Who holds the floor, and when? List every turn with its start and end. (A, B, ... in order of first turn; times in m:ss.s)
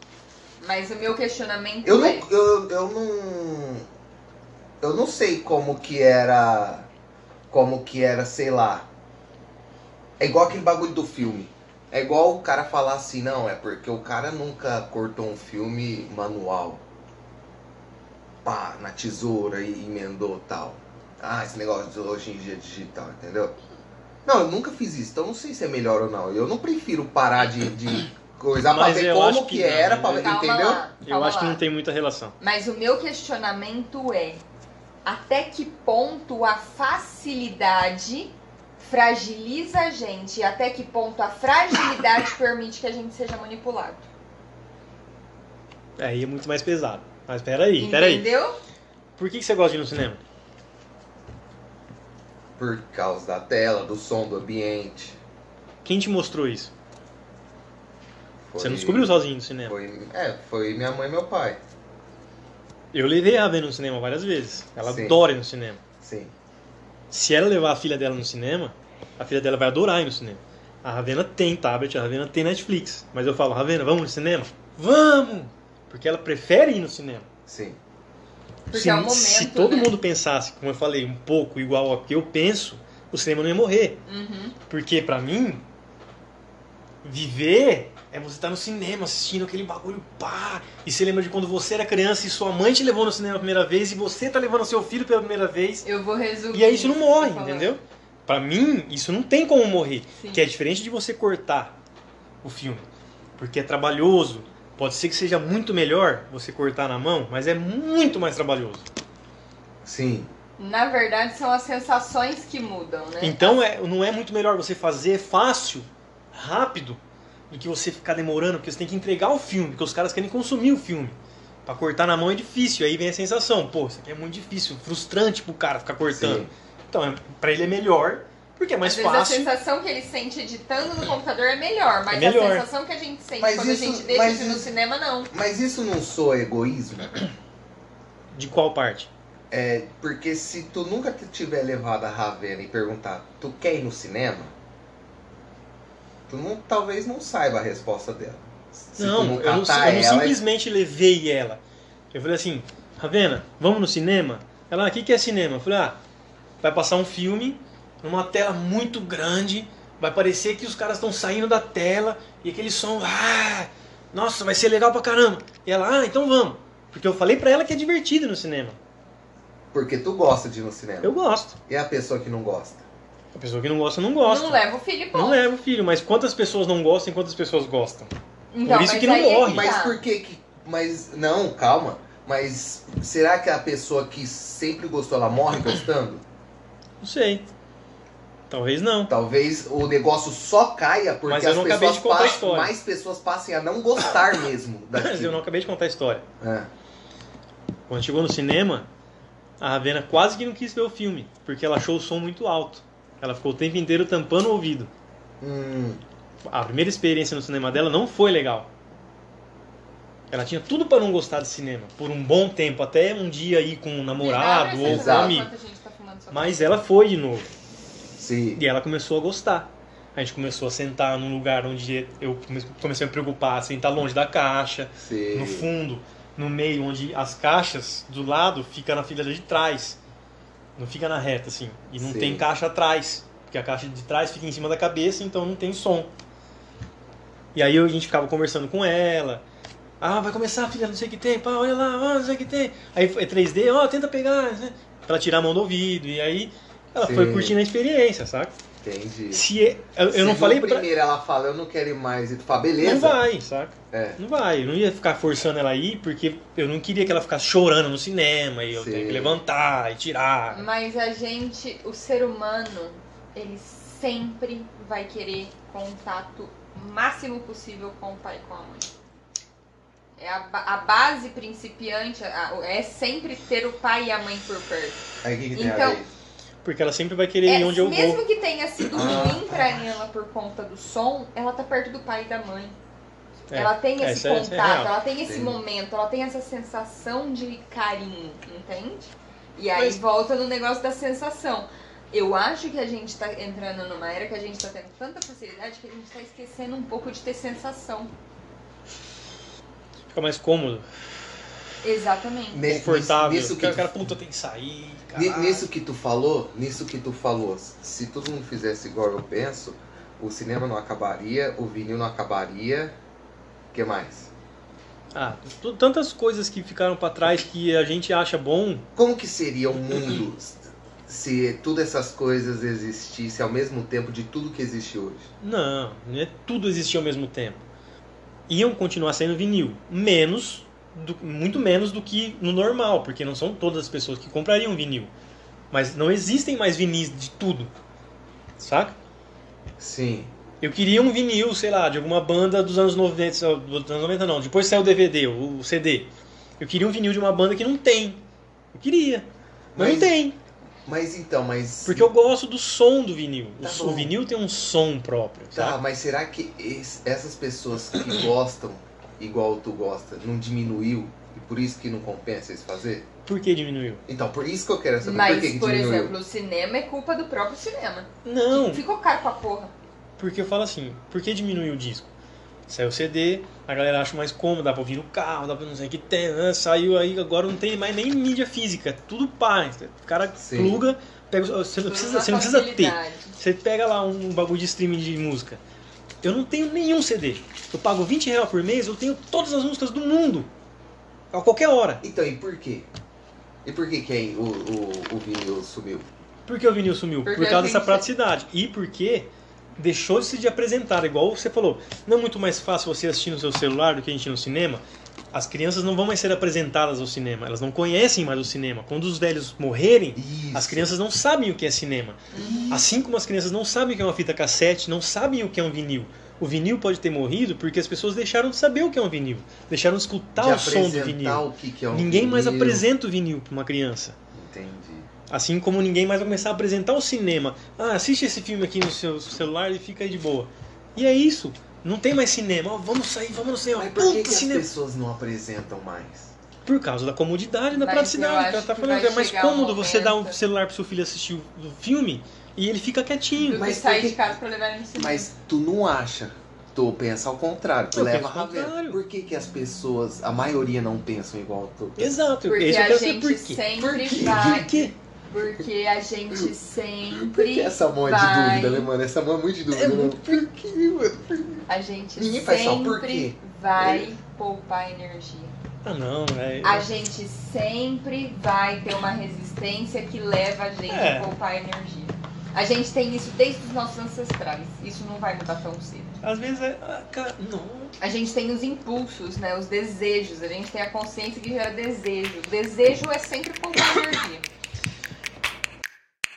0:00.6-0:02.3 A
0:01.8-0:03.9 B
0:04.8-0:06.9 B
0:07.5-0:08.9 B
0:10.2-0:16.8 B
0:18.4-0:23.6 B
0:24.2-0:30.8 B
0:28.7-0:30.3 C
0:30.2-0:31.6 A
0:31.0-0:32.4 C
0:32.4-0:34.4 A
0:35.0-0:44.1 A
0:46.0-0:48.3 C
0:47.8-0:48.6 A
0:49.2-0:50.2 C
0:52.6-0:55.2 B
0:55.8-0:56.7 C
0:58.5-0:59.1 B
0:58.6-0:59.8 C
0:59.7-1:01.6 B
1:02.9-1:05.8 C
1:04.8-1:05.2 B
1:06.0-1:06.3 B
1:07.1-1:17.3 C
1:17.5-1:17.8 B
1:18.7-1:19.9 A
1:18.7-1:24.0 C
1:24.1-1:24.6 A
1:24.7-1:25.6 C
1:27.0-1:35.9 C
1:35.8-1:37.8 A
1:36.5-1:41.8 C
1:40.2-1:40.4 A
1:42.4-1:42.8 C
1:43.4-1:48.8 C
1:49.8-1:50.3 B
1:50.6-1:53.6 A
1:53.2-2:09.5 C
2:06.1-2:06.5 B
2:08.8-2:15.3 A
2:12.1-2:12.7 C
2:13.4-2:14.7 B
2:15.3-2:17.3 B
2:18.3-2:19.1 C
2:19.5-2:24.5 B
2:26.3-2:30.4 B
2:29.0-2:31.6 C
2:32.1-2:36.0 C
2:36.6-2:48.8 C
2:49.7-2:51.2 B
2:51.0-2:51.6 C
2:51.7-2:52.8 B
2:53.4-2:54.6 C
2:54.2-2:55.4 A
2:55.1-2:58.1 C
2:58.5-3:00.0 A
2:58.6-2:59.7 C
2:59.5-3:06.2 B
3:07.0-3:07.4 C
3:08.5-3:09.1 C
3:09.1-3:15.4 B
3:11.3-3:12.7 C
3:15.0-3:16.2 C
3:16.4-3:16.7 B
3:17.9-3:18.9 C
3:19.6-3:24.9 C
3:25.4-3:26.0 B
3:26.4-3:28.7 C
3:30.3-3:35.5 C
3:34.2-3:36.6 A
3:34.8-3:35.4 B
3:36.3-3:37.5 C
3:38.2-3:38.6 B
3:38.6-3:50.0 C
3:45.0-3:45.7 B
3:50.8-3:56.1 C
3:52.0-3:52.4 B
3:57.6-3:59.4 C
4:00.0-4:08.5 C
4:07.0-4:07.6 B
4:08.8-4:09.5 B
4:09.3-4:10.9 C
4:10.1-4:13.2 B
4:12.8-4:20.7 C
4:13.9-4:14.2 B
4:18.7-4:19.4 B
4:20.5-4:28.9 A
4:30.2-4:36.0 A
4:35.2-4:36.1 B
4:36.6-4:38.2 C
4:37.5-4:42.8 A
4:38.9-4:39.8 B
4:43.5-4:44.9 C
4:43.5-4:58.1 A
4:45.2-4:45.6 B
5:00.1-5:00.8 C
5:01.8-5:02.6 A
5:02.5-5:03.9 B
5:02.6-5:05.7 C
5:05.2-5:13.0 B
5:13.7-5:14.3 B
5:15.1-5:18.9 C
5:19.0-5:25.3 B
5:25.4-5:27.6 C
5:28.5-5:35.1 C
5:35.7-5:37.7 C
5:38.6-5:39.0 C
5:39.8-5:40.3 B
5:40.6-5:50.4 C
5:49.7-5:50.2 B
5:50.9-5:52.1 B
5:51.9-5:55.8 C
5:53.6-5:54.2 B
5:55.5-6:03.1 B
6:03.3-6:04.0 C
6:04.1-6:06.2 B
6:05.0-6:09.7 A
6:08.2-6:08.8 C
6:10.2-6:12.1 C
6:12.7-6:25.6 C
6:20.4-6:20.8 B
6:21.9-6:23.4 A
6:26.2-6:30.5 C
6:31.3-6:32.0 C
6:32.0-6:32.9 B
6:33.6-6:36.1 B
6:36.5-6:52.2 C
6:37.2-6:38.0 A
6:50.2-6:50.9 B
6:52.3-6:52.8 A
6:52.4-6:52.8 B
6:52.7-7:04.2 C
7:00.4-7:02.8 B
7:04.3-7:05.1 B
7:05.3-7:14.7 C
7:13.8-7:16.3 B
7:16.6-7:23.7 C
7:17.7-7:20.4 A
7:23.4-7:25.3 A
7:23.5-7:24.2 B
7:25.0-7:32.3 B
7:27.9-7:29.0 C
7:32.0-7:33.6 C
7:32.4-7:34.8 A
7:33.8-7:34.9 B
7:34.6-7:34.9 C
7:35.3-7:38.9 A
7:37.1-7:41.7 B
7:39.7-7:40.4 C
7:41.7-7:45.5 A
7:42.2-7:44.1 B
7:45.8-7:46.9 C
7:46.6-7:56.2 A
7:50.9-7:51.3 C
7:56.2-7:58.0 C
7:58.0-8:04.4 A